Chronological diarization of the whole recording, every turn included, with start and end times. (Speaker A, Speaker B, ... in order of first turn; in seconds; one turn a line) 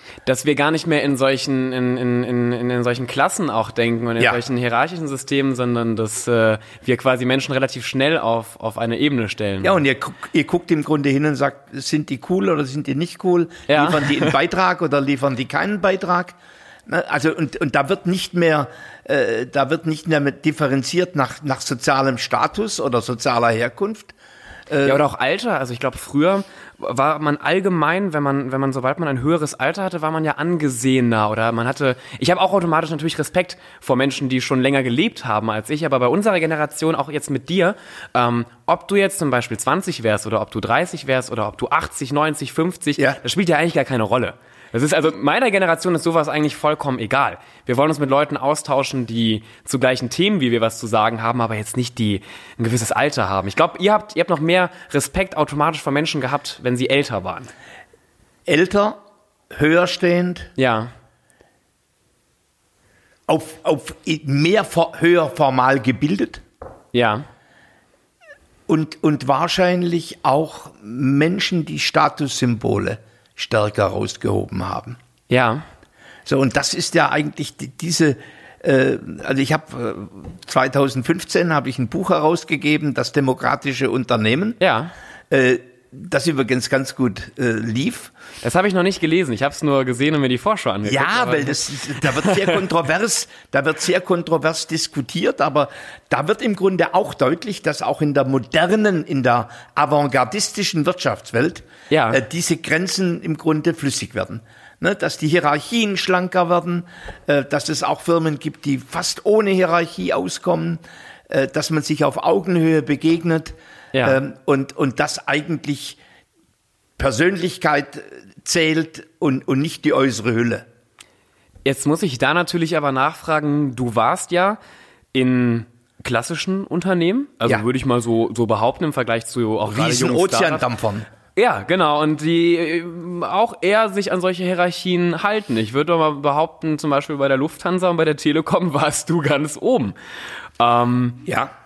Speaker A: 0.2-9.8
Speaker B: 9.6-16.4
Speaker A: 13.7-14.3
Speaker B: 16.9-24.1
Speaker B: 24.7-25.0
Speaker A: 24.8-57.5
Speaker B: 58.5-59.0
Speaker B: 59.5-60.5
Speaker A: 60.6-60.9
Speaker B: 63.3-66.4
Speaker A: 66.9-67.2
Speaker B: 68.7-75.0
Speaker A: 75.3-75.6
Speaker B: 76.2-84.6
Speaker A: 84.6-84.9
Speaker B: 85.3-88.1
Speaker A: 88.4-92.6
Speaker B: 90.8-116.0
Speaker A: 101.9-102.2
Speaker A: 113.9-114.2
Speaker B: 117.0-120.7
Speaker A: 121.6-124.6
Speaker A: 125.1-130.6
Speaker B: 129.6-131.1
Speaker A: 131.3-139.9
Speaker A: 140.6-141.2
Speaker B: 141.2-141.5